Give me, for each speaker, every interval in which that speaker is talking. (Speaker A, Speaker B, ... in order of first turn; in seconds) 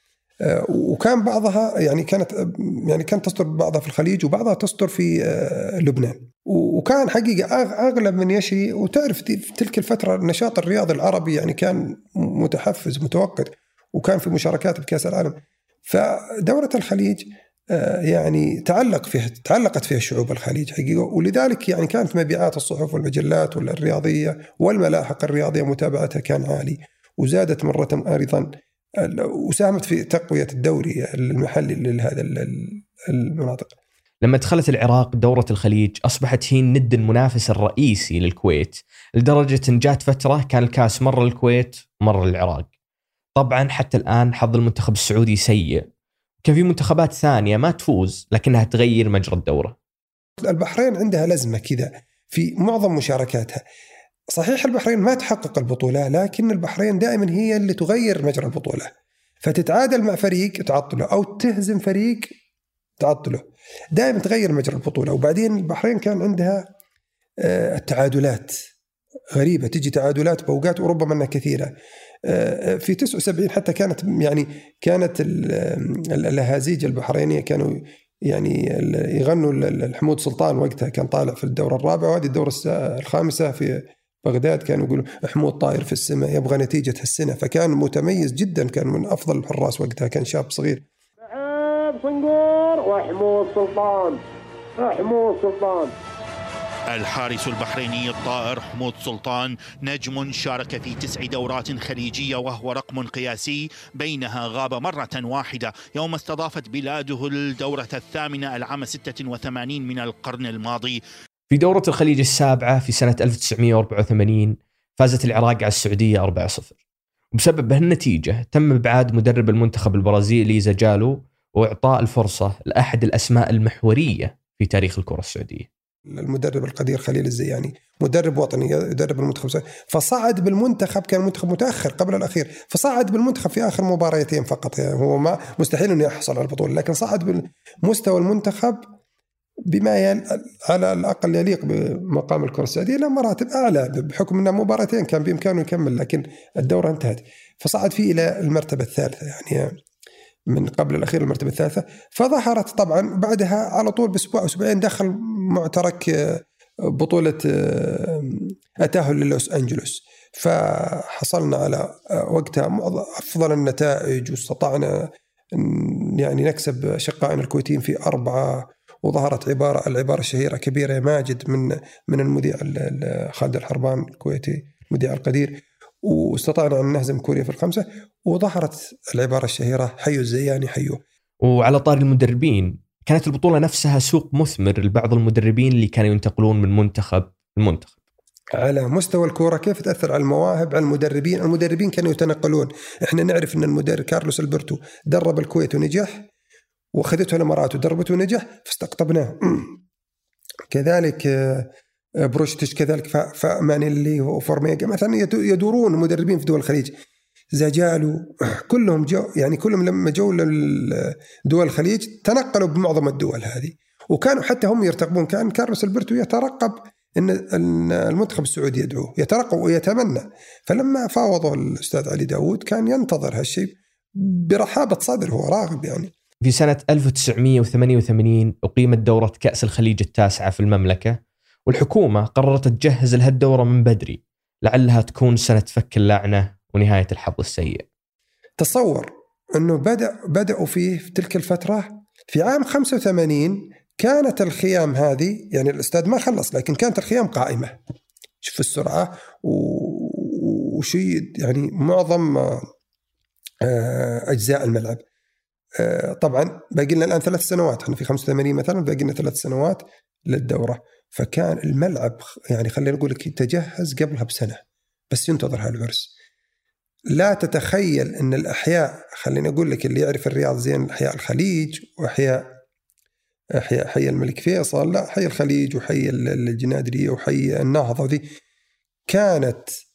Speaker A: 0.4-33.7, 50.4-53.6, 54.3-58.9, 59.4-62.3, 63.0-66.7, 67.4-68.6, 69.3-71.7, 72.2-90.8, 126.1-138.8, 139.7-149.7, 150.5-181.0, 188.6-196.3, 196.9-199.8, 200.7-206.9, 207.5-226.1, 238.6-247.8, 248.4-252.7, 253.6-255.0, 255.8-266.1, 267.1-272.5, 273.5-278.3, 279.1-279.7
Speaker B: 34.2-42.7, 43.4-45.8, 46.4-49.8, 111.5-116.8, 117.3-125.7, 181.4-187.9, 226.4-237.8
Speaker C: 91.3-94.2, 94.8-95.9
Speaker D: 96.9-111.0